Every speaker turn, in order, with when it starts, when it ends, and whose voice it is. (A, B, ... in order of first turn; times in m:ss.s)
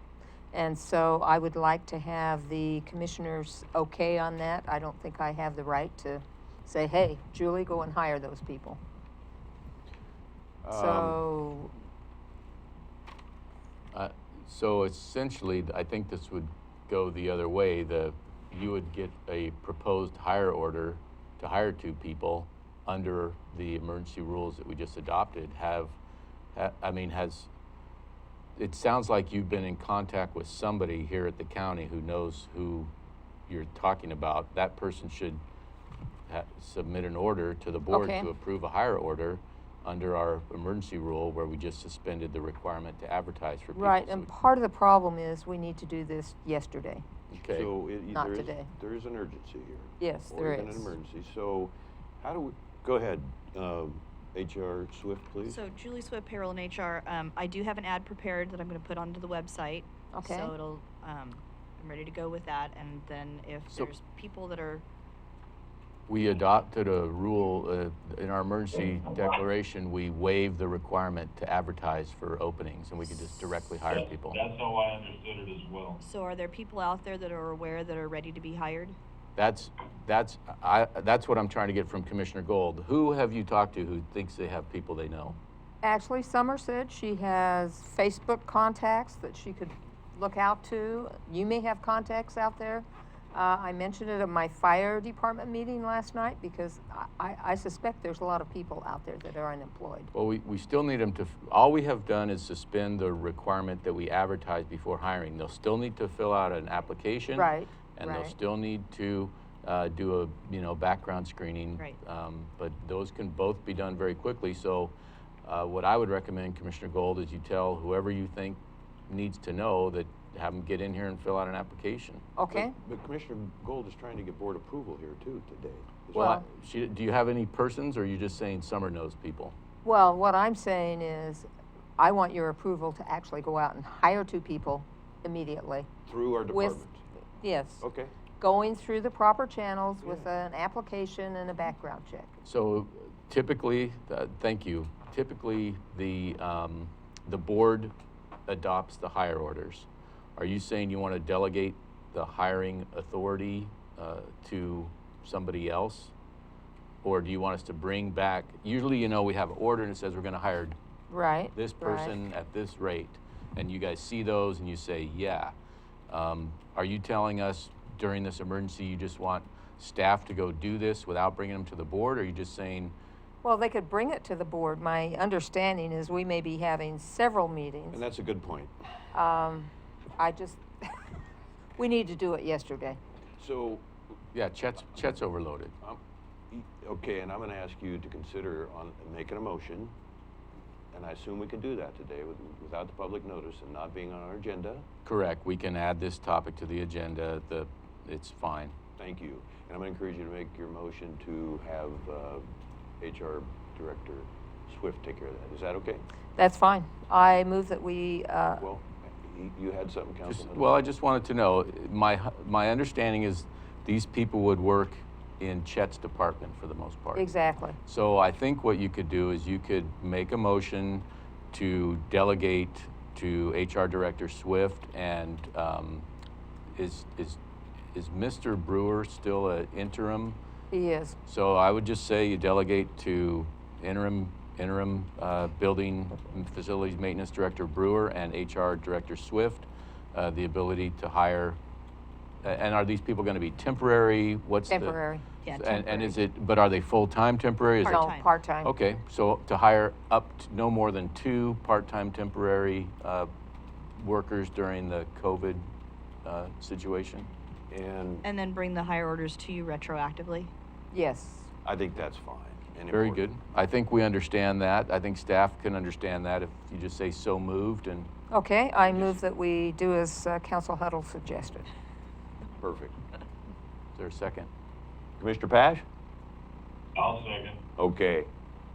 0:00.5-0:08.8 A
0:10.6-0:11.2 B
0:10.7-0:11.7 A
0:13.9-0:26.0 C
0:26.5-0:27.5 C
0:28.6-0:32.9 C
0:33.5-0:35.4 C
0:36.3-0:44.3 C
0:37.9-0:38.3 A
0:43.8-0:47.0 A
0:47.3-0:47.7 C
0:47.5-0:55.6 B
0:48.1-0:48.7 A
0:50.0-0:50.9 A
0:55.4-1:04.8 D
1:00.1-1:00.5 A
1:06.1-1:14.4 C
1:14.3-1:16.0 E
1:16.0-1:19.0 D
1:19.4-1:25.4 C
1:25.8-1:40.1 A
1:40.1-2:02.3 C
1:47.4-1:48.3 A
2:02.4-2:02.7 A
2:02.5-2:06.3 B
2:06.1-2:06.4 A
2:06.1-2:09.5 C
2:09.8-2:15.9 A
2:16.1-2:17.0 B
2:16.5-2:16.8 A
2:17.4-2:17.8 A
2:17.8-2:18.1 B
2:18.4-2:22.3 A
2:20.0-2:20.3 B
2:22.4-2:27.9 C
2:28.5-2:36.1 C
2:37.0-2:40.7 C
2:41.1-2:42.1 A
2:41.5-2:45.5 C
2:46.1-2:52.9 C
2:53.4-2:58.0 A
2:57.9-2:58.7 B
2:59.1-3:01.0 A
3:01.8-3:03.0 A
3:03.4-3:03.8 B
3:04.3-3:05.7 C
3:06.5-3:09.9 B
3:10.9-3:14.8 B
3:15.0-3:18.8 C
3:19.0-3:22.4 B
3:23.0-3:26.0 B
3:26.4-3:28.6 A
3:28.6-3:30.7 B
3:30.3-3:37.3 C
3:37.1-3:37.8 A
3:37.8-3:46.0 C
3:46.8-3:47.4 C
3:47.9-3:50.4 C
3:50.7-3:51.2 A
3:51.3-4:01.6 C
4:02.4-4:05.0 C
4:04.7-4:05.2 A
4:05.4-4:06.0 D
4:05.5-4:08.1 C
4:07.8-4:08.3 D
4:07.8-4:08.7 A
4:08.6-4:13.3 C
4:14.0-4:15.6 C
4:16.2-4:17.3 C
4:17.7-4:18.2 B
4:18.2-4:20.5 D
4:20.9-4:21.5 A
4:21.6-4:23.3 B
4:22.9-4:28.1 C
4:28.3-4:31.7 A
4:28.9-4:29.2 B
4:32.6-4:33.0 B
4:33.9-4:34.5 C
4:35.2-4:35.8 B
4:37.0-4:37.6 E
4:37.8-4:38.3 B